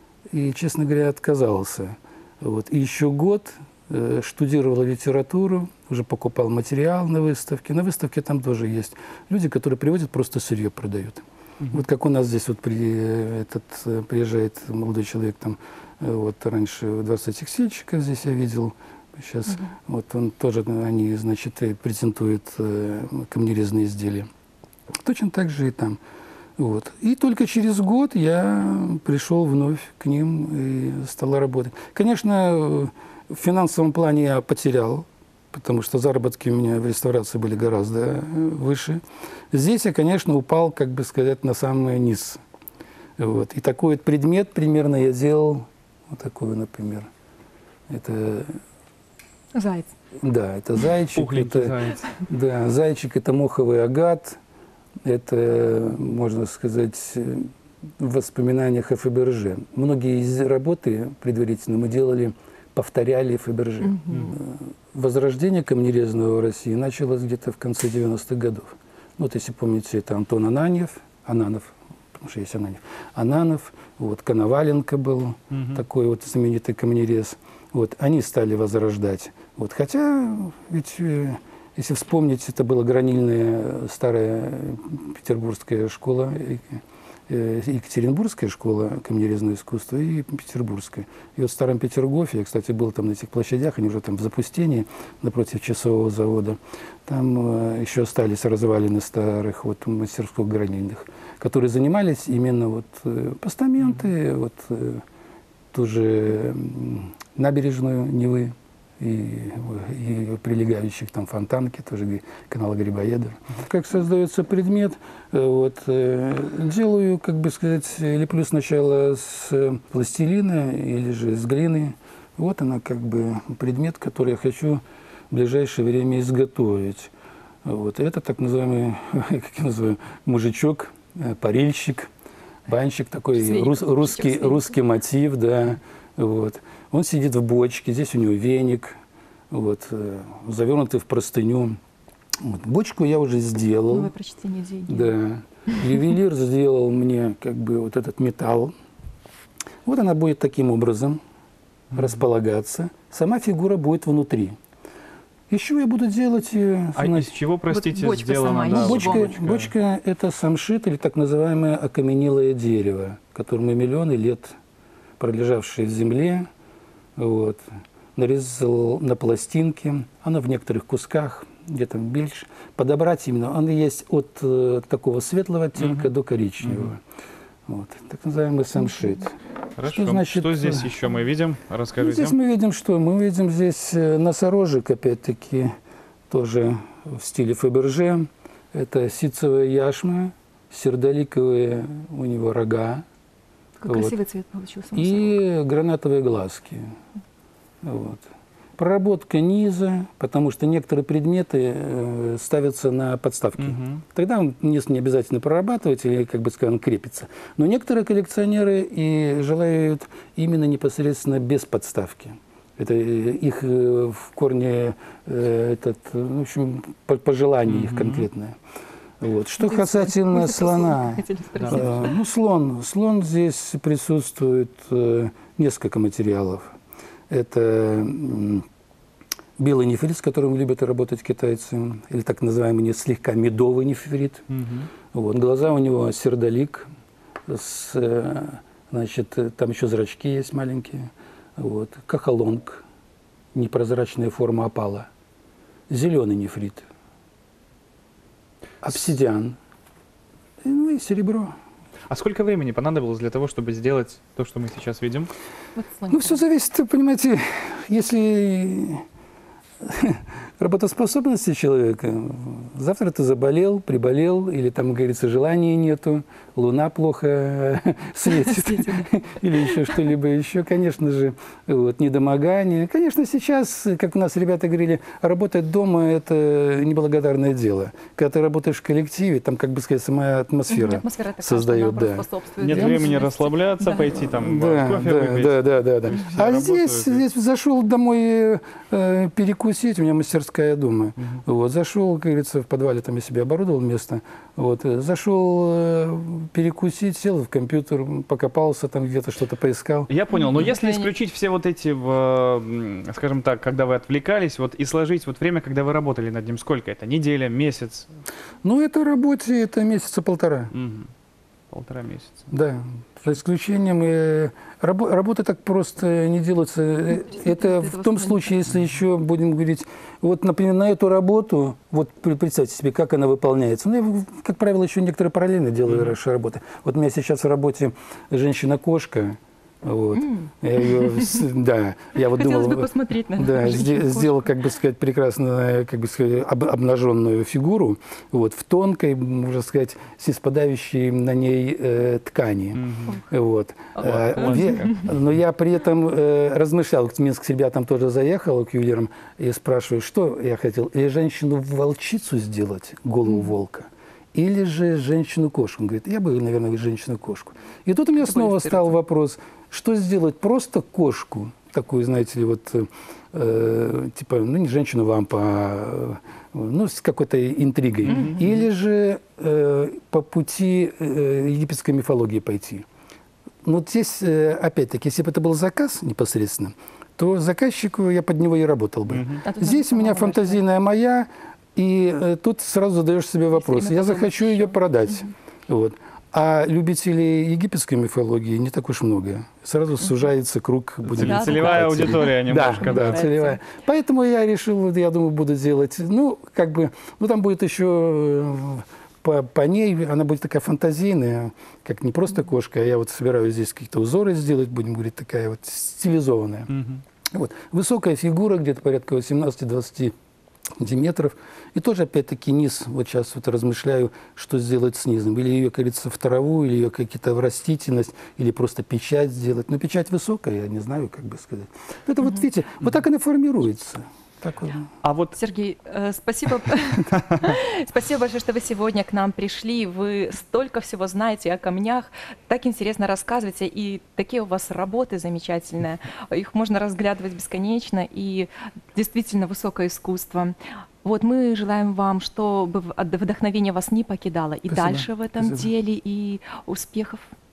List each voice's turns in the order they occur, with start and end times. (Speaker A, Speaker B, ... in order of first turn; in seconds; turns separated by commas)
Speaker A: 0.3-24.3, Speaker A: 25.0-26.0, Speaker A: 26.6-39.0, Speaker A: 39.5-42.4, Speaker A: 43.2-47.1, Speaker A: 47.9-48.6, Speaker B: 49.5-49.9, Speaker A: 50.2-54.4, Speaker C: 51.1-52.1, Speaker A: 55.0-105.0, Speaker A: 105.7-127.1, Speaker A: 127.6-132.1, Speaker A: 132.7-138.9, Speaker B: 133.3-134.7, Speaker A: 139.5-141.8, Speaker A: 142.4-144.1, Speaker B: 143.9-145.1, Speaker A: 144.9-148.7, Speaker A: 149.8-151.2, Speaker A: 151.9-154.6, Speaker A: 155.5-157.3, Speaker C: 156.9-159.7, Speaker B: 157.7-159.2, Speaker A: 158.6-164.5, Speaker A: 165.2-166.5, Speaker A: 167.2-167.6, Speaker A: 168.1-177.0, Speaker C: 175.8-176.1, Speaker C: 176.6-176.9, Speaker A: 177.7-180.9, Speaker C: 179.8-182.3, Speaker A: 182.0-185.7, Speaker A: 186.3-193.0, Speaker B: 193.8-195.4, Speaker A: 193.9-194.1, Speaker A: 194.9-196.8, Speaker A: 197.8-198.2, Speaker A: 198.8-218.6, Speaker C: 203.6-204.0, Speaker C: 217.7-218.3, Speaker A: 219.2-226.7, Speaker B: 219.6-222.1, Speaker C: 221.6-221.9, Speaker A: 227.3-228.6, Speaker A: 229.6-234.5, Speaker C: 234.5-234.9, Speaker A: 235.1-236.9, Speaker A: 237.5-242.8, Speaker A: 243.5-245.1, Speaker A: 245.9-246.9, Speaker A: 248.8-249.6, Speaker A: 250.6-251.5, Speaker C: 252.1-255.3, Speaker B: 255.8-256.4, Speaker A: 256.1-259.0, Speaker A: 259.8-283.1, Speaker B: 268.3-269.1, Speaker B: 269.6-269.9, Speaker B: 280.7-284.1, Speaker C: 282.6-287.2, Speaker A: 284.3-300.1, Speaker C: 300.1-308.1, Speaker B: 300.4-301.1, Speaker A: 308.6-310.7, Speaker C: 310.7-311.1, Speaker C: 311.7-312.5, Speaker A: 312.5-372.8, Speaker B: 317.3-318.5, Speaker B: 330.2-331.0, Speaker B: 332.2-334.4, Speaker C: 342.7-343.1, Speaker C: 344.0-345.1, Speaker B: 344.4-344.9, Speaker C: 368.0-368.6, Speaker B: 368.1-368.4, Speaker A: 373.6-406.7, Speaker C: 379.1-379.4, Speaker B: 379.4-380.6, Speaker B: 383.5-384.8, Speaker C: 391.1-393.2, Speaker B: 391.2-393.6, Speaker C: 406.7-407.0, Speaker A: 407.3-410.1, Speaker A: 410.8-424.9, Speaker C: 425.0-425.4, Speaker B: 425.3-447.3, Speaker A: 444.7-445.7